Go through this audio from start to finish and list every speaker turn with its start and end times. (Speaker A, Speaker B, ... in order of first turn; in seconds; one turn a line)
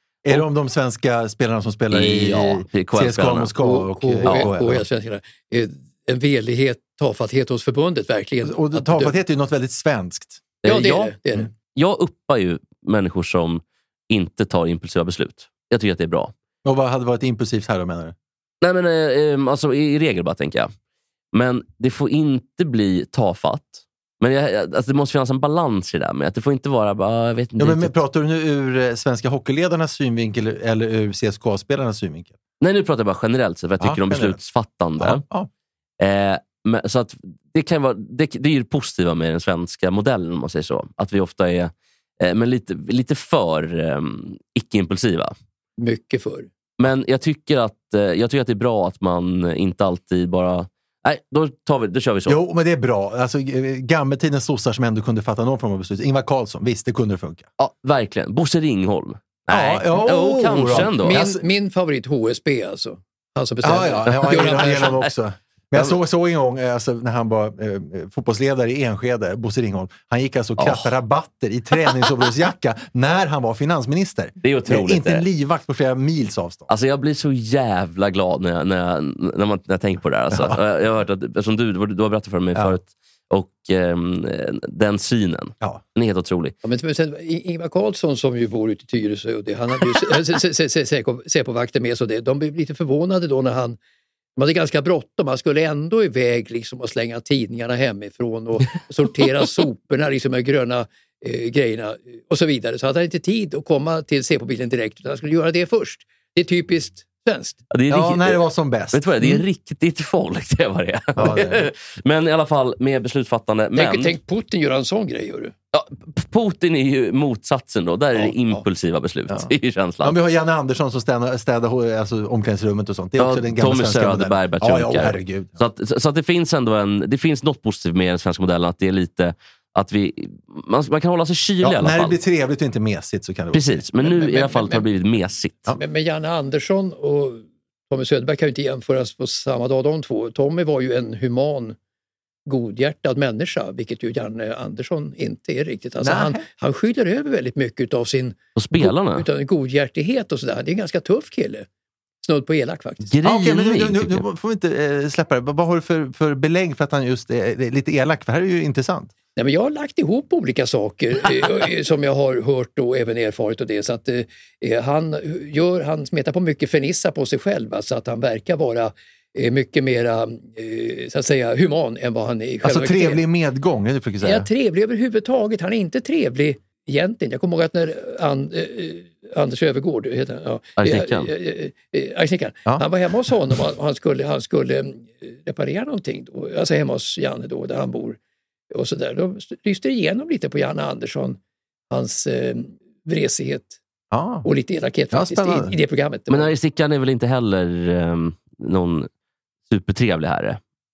Speaker A: 0.2-4.8
Speaker B: 1.9-3.5
Speaker C: 3.6-9.2
Speaker B: 4.2-4.5
Speaker A: 8.4-10.4
Speaker B: 10.6-11.1
Speaker C: 10.7-11.5
Speaker B: 11.7-16.3
Speaker A: 16.6-18.1
Speaker B: 18.6-20.7
Speaker B: 21.3-27.9
Speaker A: 27.6-32.4
Speaker B: 32.6-35.2
Speaker A: 33.8-34.4
Speaker A: 35.0-35.5
Speaker B: 36.0-45.3
Speaker C: 45.8-46.5
Speaker B: 46.8-52.4
Speaker A: 52.2-57.5
Speaker B: 57.6-61.2
Speaker A: 59.5-61.4
Speaker C: 61.0-65.0
Speaker A: 63.6-76.7
Speaker B: 64.1-65.1
Speaker B: 70.6-70.9
Speaker B: 74.4-75.2
Speaker B: 76.7-86.5
Speaker A: 80.3-80.6
Speaker C: 86.6-93.8
Speaker C: 94.4-107.6
Speaker B: 107.7-108.4
Speaker A: 107.9-109.4
Speaker B: 108.9-114.1
Speaker A: 111.2-111.7
Speaker C: 113.8-115.5
Speaker B: 115.7-120.2
Speaker A: 120.0-125.6
Speaker B: 123.2-132.2
Speaker A: 131.6-133.8
Speaker B: 133.5-135.7
Speaker C: 134.0-134.9
Speaker C: 135.7-141.8
Speaker C: 142.5-151.7
Speaker A: 146.0-146.4
Speaker B: 148.6-149.2
Speaker C: 152.2-153.1
Speaker B: 153.0-154.2
Speaker A: 153.2-159.1
Speaker C: 159.4-173.2
Speaker A: 172.6-174.5
Speaker C: 174.2-188.2
Speaker B: 180.8-181.3
Speaker C: 188.7-191.4
Speaker C: 191.9-193.8
Speaker A: 194.1-194.5
Speaker C: 194.4-196.5
Speaker A: 195.1-195.7
Speaker B: 196.3-199.1
Speaker B: 199.7-200.6